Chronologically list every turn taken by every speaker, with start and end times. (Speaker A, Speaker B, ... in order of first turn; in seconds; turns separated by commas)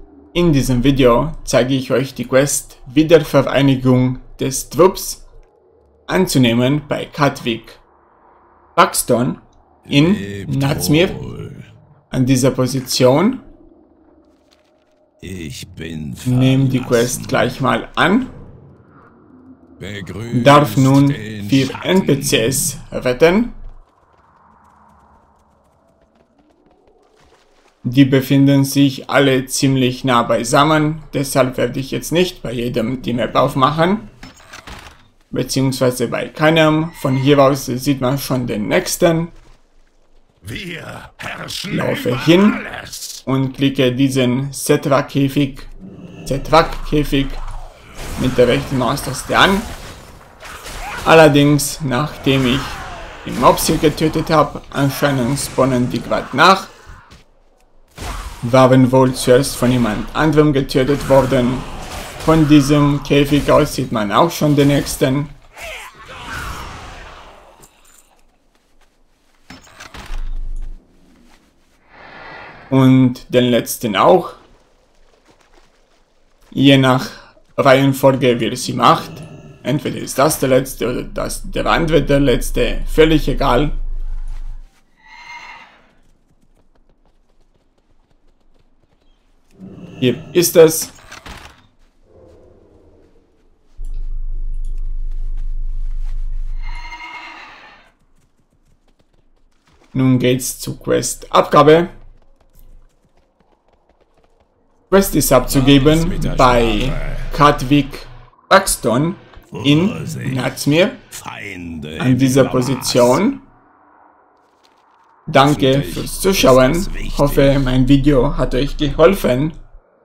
Speaker A: 0.3-5.2, Speaker A: 6.1-7.8, Speaker A: 8.8-11.2, Speaker B: 9.9-11.7, Speaker A: 12.1-13.4, Speaker B: 15.2-17.5, Speaker A: 16.2-18.3, Speaker B: 19.8-22.6, Speaker A: 20.3-23.5, Speaker A: 27.8-34.1, Speaker A: 35.3-39.3, Speaker B: 40.4-42.9, Speaker A: 41.6-42.6, Speaker A: 43.2-45.7, Speaker A: 46.2-47.4, Speaker A: 48.2-49.7, Speaker A: 51.0-56.7, Speaker A: 58.4-61.7, Speaker A: 62.2-65.3, Speaker A: 72.7-74.4, Speaker A: 76.5-83.7, Speaker A: 90.0-90.9, Speaker A: 99.9-101.9, Speaker A: 104.9-111.0, Speaker B: 105.5-107.3, Speaker B: 109.5-110.4, Speaker B: 111.1-113.2, Speaker A: 112.0-113.4, Speaker A: 115.3-119.6, Speaker B: 115.4-117.7